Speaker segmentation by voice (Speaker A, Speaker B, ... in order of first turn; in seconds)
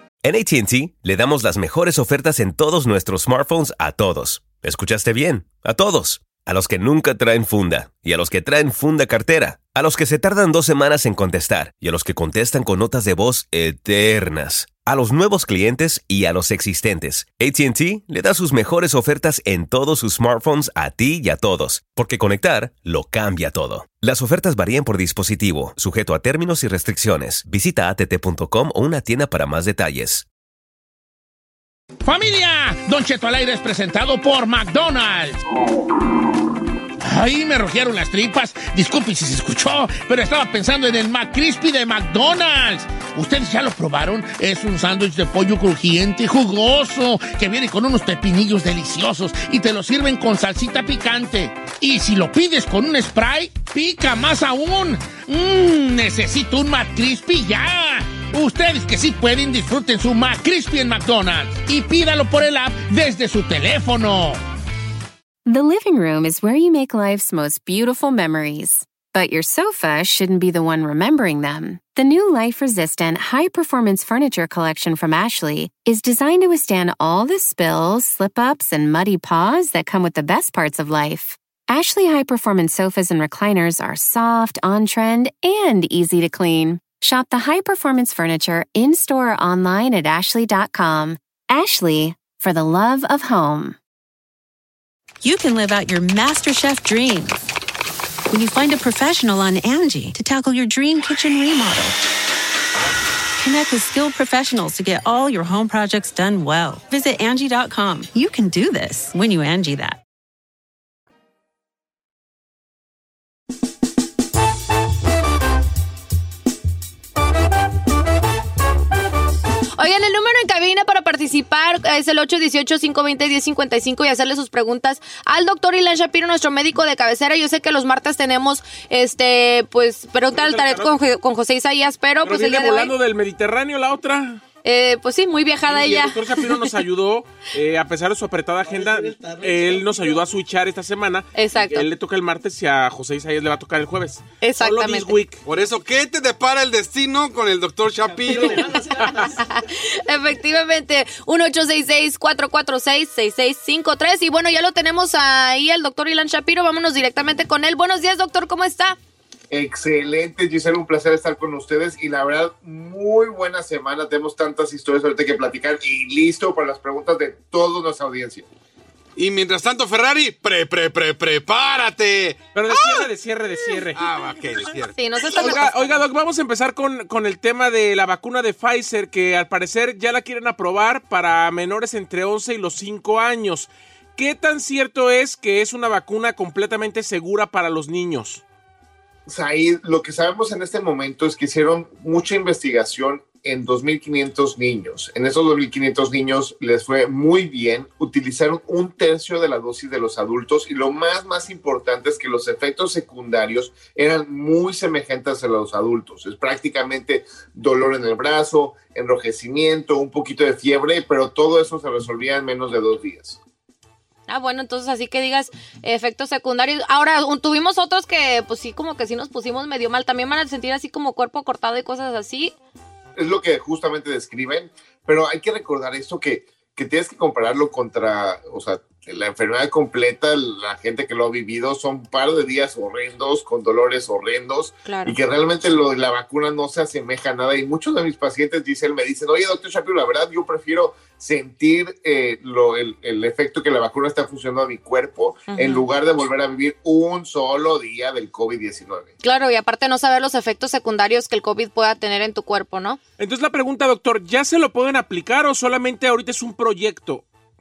Speaker A: 0.2-30.3
Speaker B: 32.0-35.4, 37.0-64.4, 138.7-140.0
Speaker C: 65.5-93.8
Speaker D: 95.2-97.5, 98.3-102.0, 103.4-110.0
Speaker E: 119.8-132.9, 134.6-136.8, 141.3-141.9, 144.4-145.3, 148.4-159.0, 174.9-176.0, 214.3-222.6, 234.8-235.2, 245.5-245.9, 249.2-253.0
Speaker F: 130.3-130.9, 132.2-134.4, 135.7-145.3, 148.3-149.3, 172.6-174.0, 175.3-188.4, 253.2-257.2
Speaker G: 145.5-148.7, 169.2-172.8, 173.9-175.6
Speaker H: 159.5-168.5, 189.3-213.4, 223.2-249.1